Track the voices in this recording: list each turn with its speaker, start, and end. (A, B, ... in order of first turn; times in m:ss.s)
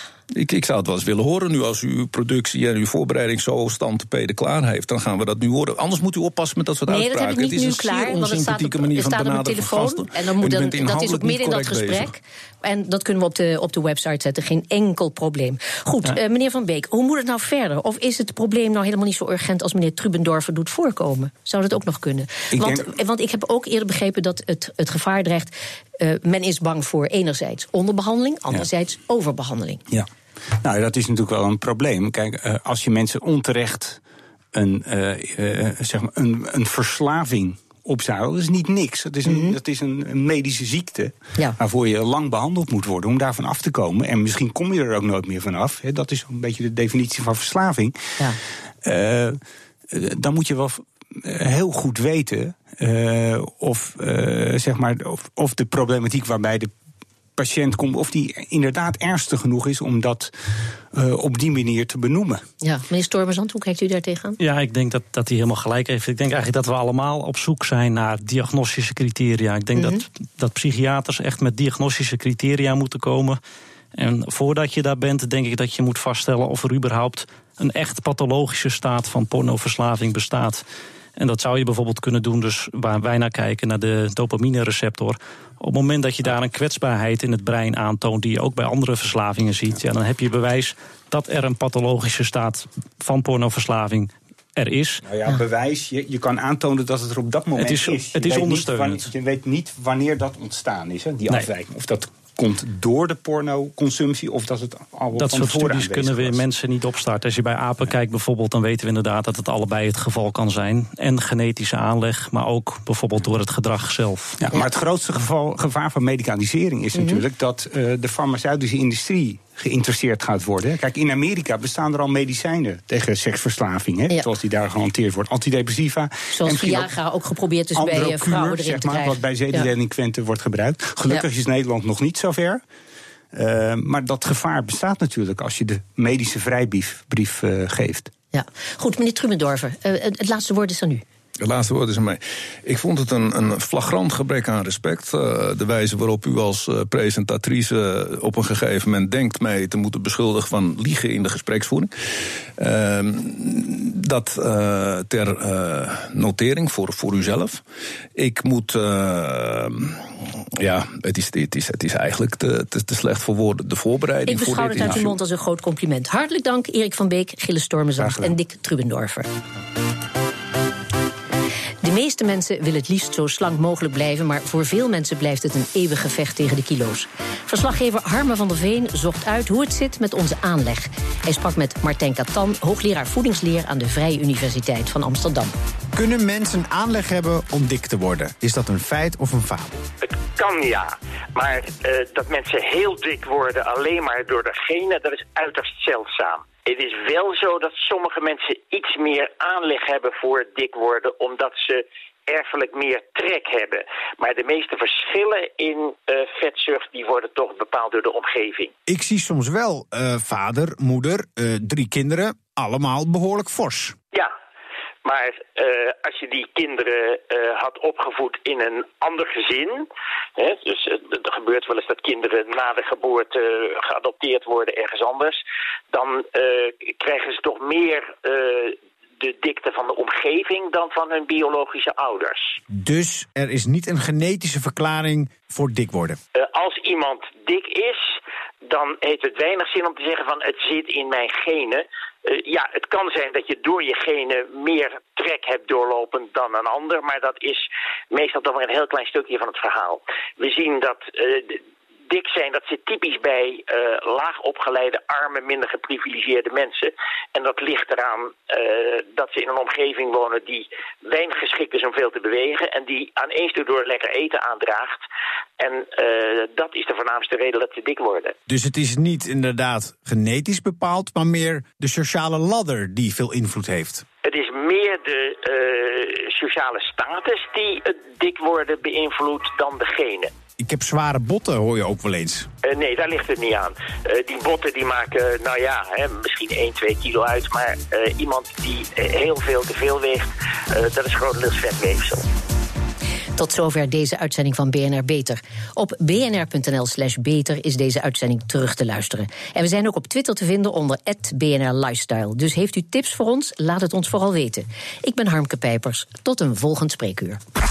0:00.3-0:12.1 A
0:06.9-0:29.8 B
0:22.5-0:22.9 C
0:30.6-0:34.0 C
0:34.5-0:48.1 C
0:39.2-0:39.6 B
0:48.8-0:49.4 C
0:49.9-0:56.7 C
0:57.4-1:02.4 C
1:02.6-1:04.4 B
1:04.4-1:13.4 D
1:09.8-1:10.0 B
1:13.9-1:20.6 D
1:21.2-1:35.0 D
1:35.0-1:46.4 C
1:37.6-1:39.1 D
1:45.2-1:54.4 D
1:54.4-2:06.9 C
1:56.9-1:57.2 B
2:06.3-2:09.7 B
2:07.7-2:12.6 C
2:13.3-2:18.1 C
2:18.3-2:21.0 B
2:21.4-2:37.6 A
2:38.1-2:45.2 A
2:44.3-2:49.3 B
2:48.0-2:48.3 C
2:51.8-3:05.5 B
3:05.9-3:09.8 E
3:10.0-3:28.7 F
3:28.9-3:34.0 E
3:35.0-3:45.4 F
3:45.9-3:52.6 F
3:52.7-3:56.2 E
3:56.4-4:25.0 F
4:25.6-4:28.3 F
4:28.5-4:34.0 E
4:34.2-4:40.3 F
4:40.6-4:42.5 E
4:42.6-4:52.2 F
4:53.4-5:07.4 B